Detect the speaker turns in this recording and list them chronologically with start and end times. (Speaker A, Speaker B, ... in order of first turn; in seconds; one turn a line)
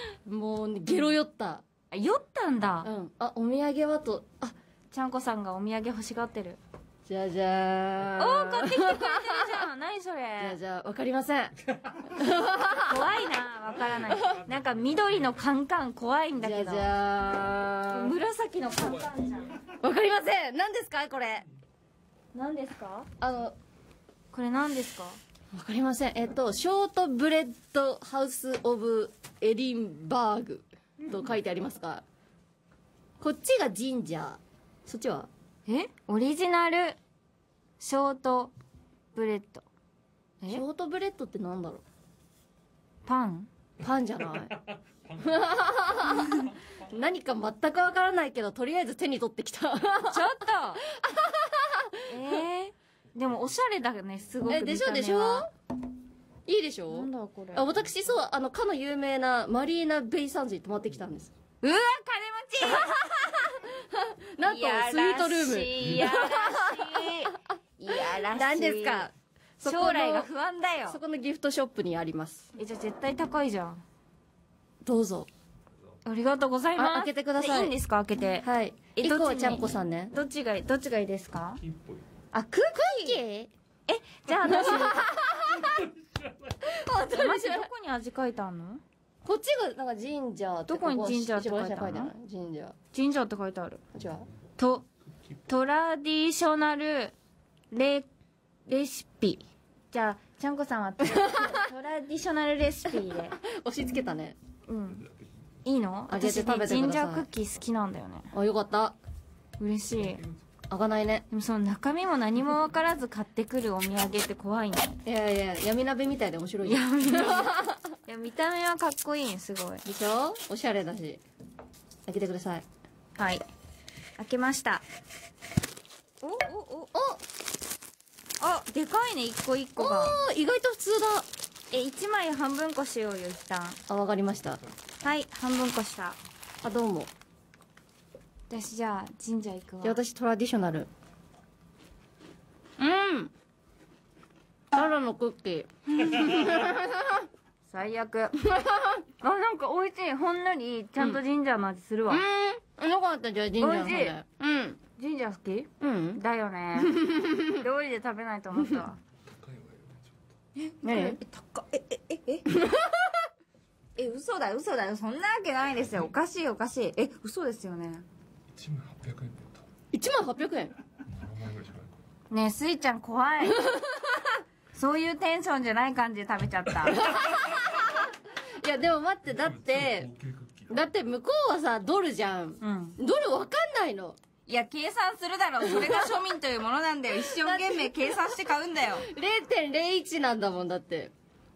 Speaker A: 0.2-1.6
Speaker B: 1.9-2.9
Speaker A: 2.8-4.5
Speaker B: 4.9-6.6
Speaker A: 7.0-9.6
Speaker B: 8.2-10.6
Speaker A: 10.4-12.9
Speaker B: 12.8-16.9
Speaker A: 16.4-18.2
Speaker B: 17.9-19.6
Speaker A: 19.8-21.5
Speaker B: 22.3-23.1
Speaker A: 23.2-23.6
Speaker B: 24.3-25.2
Speaker A: 25.5-32.0
Speaker A: 33.2-35.3
Speaker B: 35.7-37.0
Speaker B: 37.8-38.5
Speaker B: 39.1-39.6
Speaker A: 40.5-41.8
Speaker B: 43.0-43.5
Speaker A: 43.8-44.6
Speaker A: 45.1-52.4
Speaker B: 50.1-50.8
Speaker B: 52.1-55.5
Speaker A: 54.5-55.5
Speaker A: 56.5-61.3
Speaker B: 56.9-57.7
Speaker B: 61.6-63.6
Speaker A: 62.6-67.3
Speaker B: 64.4-69.0
Speaker A: 68.1-70.3
Speaker B: 69.6-71.0
Speaker A: 70.9-72.5
Speaker B: 72.5-73.8
Speaker A: 74.8-75.3
Speaker B: 76.0-81.6
Speaker A: 76.8-77.7
Speaker A: 78.4-80.1
Speaker C: 81.7-82.0
Speaker B: 82.3-83.2
Speaker A: 82.8-83.5
Speaker B: 83.9-85.1
Speaker A: 84.4-85.9
Speaker A: 86.6-87.7
Speaker B: 87.0-88.8
Speaker A: 89.2-92.7
Speaker B: 90.7-92.1
Speaker B: 92.9-93.8
Speaker A: 93.9-94.2
Speaker B: 94.6-94.8
Speaker B: 95.5-97.1
Speaker B: 97.7-98.1
Speaker B: 98.7-103.4
Speaker A: 101.1-101.6
Speaker A: 102.9-104.3
Speaker B: 104.7-105.1
Speaker B: 105.6-108.3
Speaker A: 106.1-107.2
Speaker A: 108.3-108.9
Speaker B: 109.6-110.2
Speaker A: 110.7-111.2
Speaker B: 111.3-115.0
Speaker A: 115.0-117.8
Speaker B: 116.6-119.8
Speaker A: 119.8-121.2
Speaker A: 122.1-122.6
Speaker B: 123.2-123.4
Speaker B: 124.2-124.8
Speaker B: 126.2-126.9
Speaker A: 126.9-127.2
Speaker B: 128.4-130.2
Speaker A: 129.8-131.3
Speaker B: 131.7-133.8
Speaker A: 133.9-134.6
Speaker B: 135.0-136.2
Speaker A: 136.6-137.1
Speaker B: 138.5-140.0
Speaker A: 139.8-140.9
Speaker A: 142.8-143.3
Speaker A: 144.7-147.2
Speaker B: 147.7-148.4
Speaker A: 148.5-148.9
Speaker B: 149.2-152.2
Speaker A: 152.1-154.8
Speaker B: 153.6-154.2
Speaker B: 154.8-159.0
Speaker A: 155.8-156.2
Speaker A: 156.8-157.6
Speaker C: 159.3-160.1
Speaker B: 160.6-162.5
Speaker A: 160.8-161.2
Speaker A: 162.5-163.1
Speaker B: 163.9-168.1
Speaker C: 168.5-169.6
Speaker A: 169.9-170.8
Speaker C: 171.1-171.9
Speaker B: 172.3-173.8
Speaker A: 173.4-174.3
Speaker B: 174.7-177.1
Speaker A: 177.0-180.1
Speaker C: 179.7-180.7
Speaker A: 180.7-184.2
Speaker B: 182.6-183.0
Speaker B: 184.5-189.1
Speaker A: 185.6-186.2
Speaker A: 187.1-188.3
Speaker A: 189.0-191.1